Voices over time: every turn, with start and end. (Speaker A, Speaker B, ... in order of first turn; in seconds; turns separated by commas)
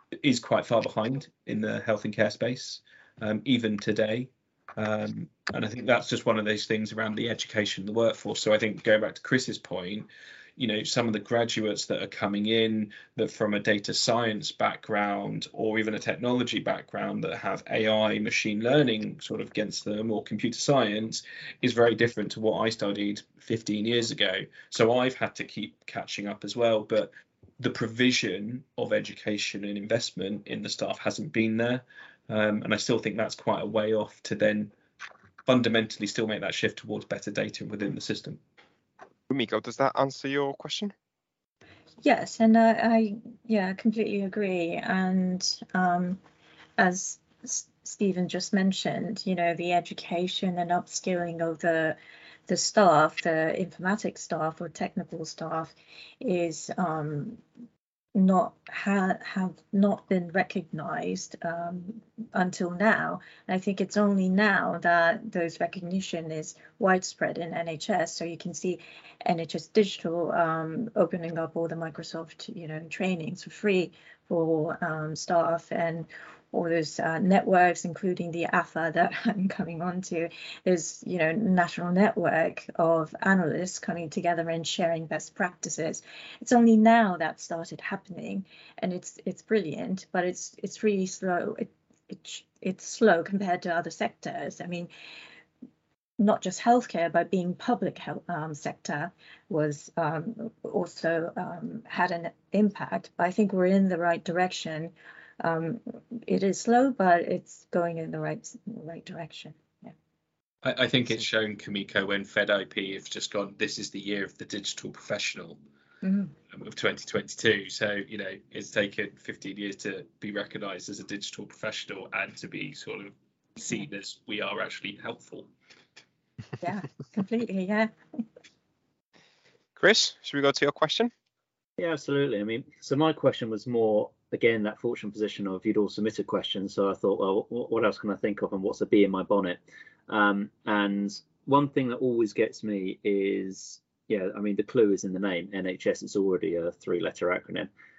Speaker A: 0.2-34.7, Speaker A: 35.5-38.4, Speaker B: 39.3-40.9, Speaker C: 42.0-46.2, Speaker C: 46.8-52.0, Speaker C: 52.5-57.4, Speaker C: 58.1-94.9, Speaker C: 96.2-109.9, Speaker A: 110.6-115.6, Speaker C: 116.0-116.3, Speaker A: 116.5-125.5, Speaker C: 126.6-127.9, Speaker B: 129.8-131.1, Speaker D: 131.8-147.7